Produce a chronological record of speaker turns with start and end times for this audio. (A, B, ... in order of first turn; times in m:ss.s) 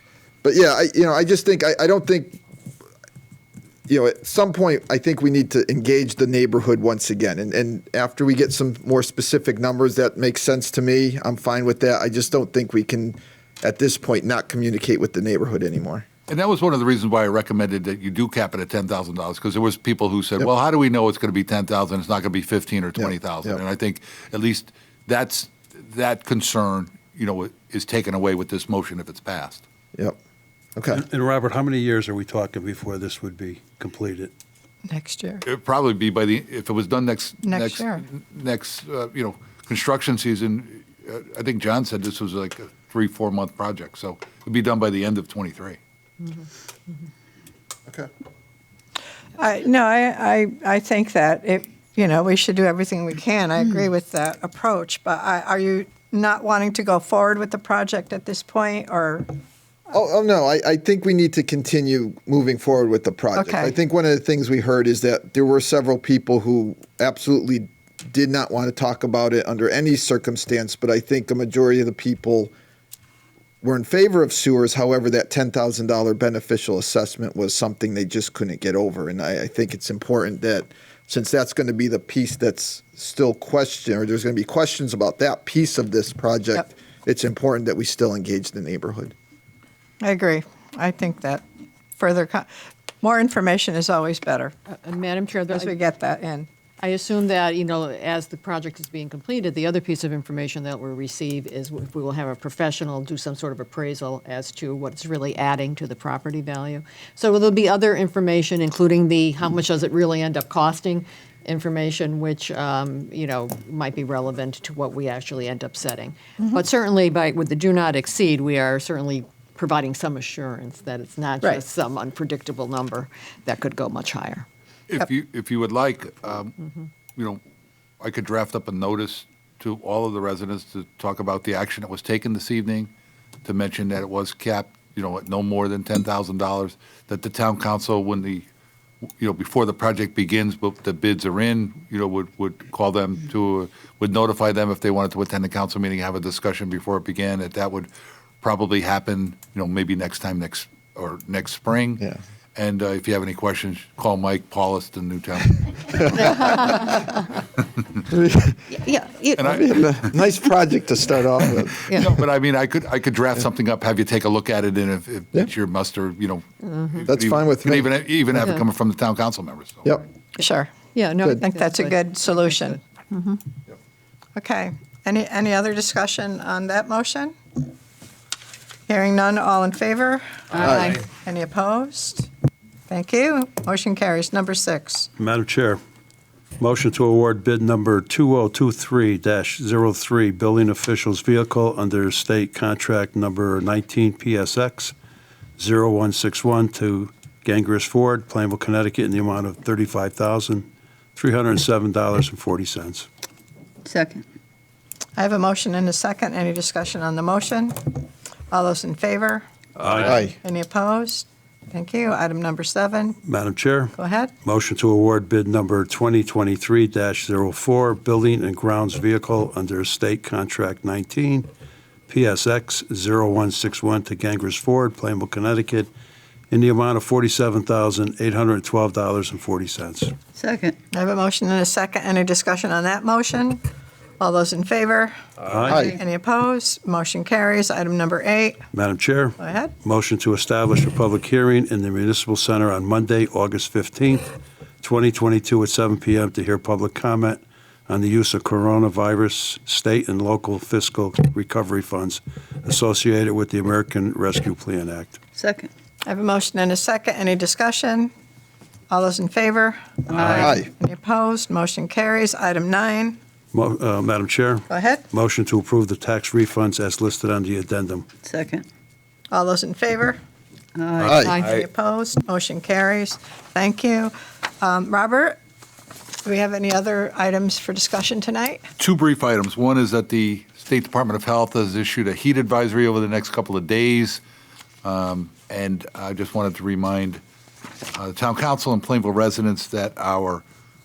0:00.4-0:02.4 A
0:03.9-0:16.1 A
0:16.3-0:29.6 B
0:23.0-0:23.6 A
0:30.8-0:31.0 A
0:30.9-0:34.3 C
0:34.9-0:35.4 D
0:35.4-0:45.8 B
0:37.4-0:38.0 D
0:49.4-0:59.3 D
0:59.9-1:12.5 A
1:03.4-1:03.7 D
1:13.6-1:29.1 A
1:30.0-1:31.4 D
1:32.0-1:32.5 D
1:33.0-1:34.5 D
1:34.9-1:35.5 E
1:35.5-1:36.5 D
1:36.8-2:04.5 E
2:04.9-2:06.6 B
2:07.2-2:07.4 B
2:08.0-2:12.9 B
2:13.4-2:18.5 B
2:19.2-2:36.7 B
2:38.1-2:38.7 A
2:38.8-2:39.3 E
2:39.4-2:40.2 B
2:39.4-2:42.0 A
2:41.8-2:49.9 B
2:47.1-2:47.9 A
2:50.4-2:52.8 D
2:50.9-2:52.6 E
2:54.4-2:57.6 D
2:58.9-3:02.3 D
3:00.6-3:01.0 A
3:02.9-3:05.1 D
3:05.2-3:05.8 C
3:06.6-3:15.0 C
3:15.6-3:23.1 C
3:23.9-3:24.2 F
3:25.2-3:29.4 D
3:29.8-3:30.2 C
3:29.9-3:30.3 A
3:30.3-3:33.2 D
3:33.2-3:41.5 C
3:33.9-3:34.3 D
3:42.1-3:45.9 C
3:46.5-3:50.2 C
3:50.4-3:50.8 F
3:50.9-3:53.6 D
3:54.2-3:58.6 D
3:55.5-3:55.9 C
3:58.7-4:15.2 C
3:59.4-3:59.7 D
4:15.4-4:15.7 F
4:16.1-4:18.1 D
4:18.9-4:23.2 D
4:20.1-4:20.4 F
4:20.1-4:20.6 C
4:20.3-4:20.7 A
4:23.5-4:28.1 C
4:24.7-4:25.1 D
4:28.2-4:28.6 F
4:29.3-4:30.2 D
4:30.8-4:31.4 F
4:31.0-4:31.7 B
4:31.0-4:31.4 A
4:31.4-4:35.4 D
4:36.2-4:38.7 D
4:38.8-4:44.2 B
4:44.8-4:47.2 B
4:47.9-4:50.4 B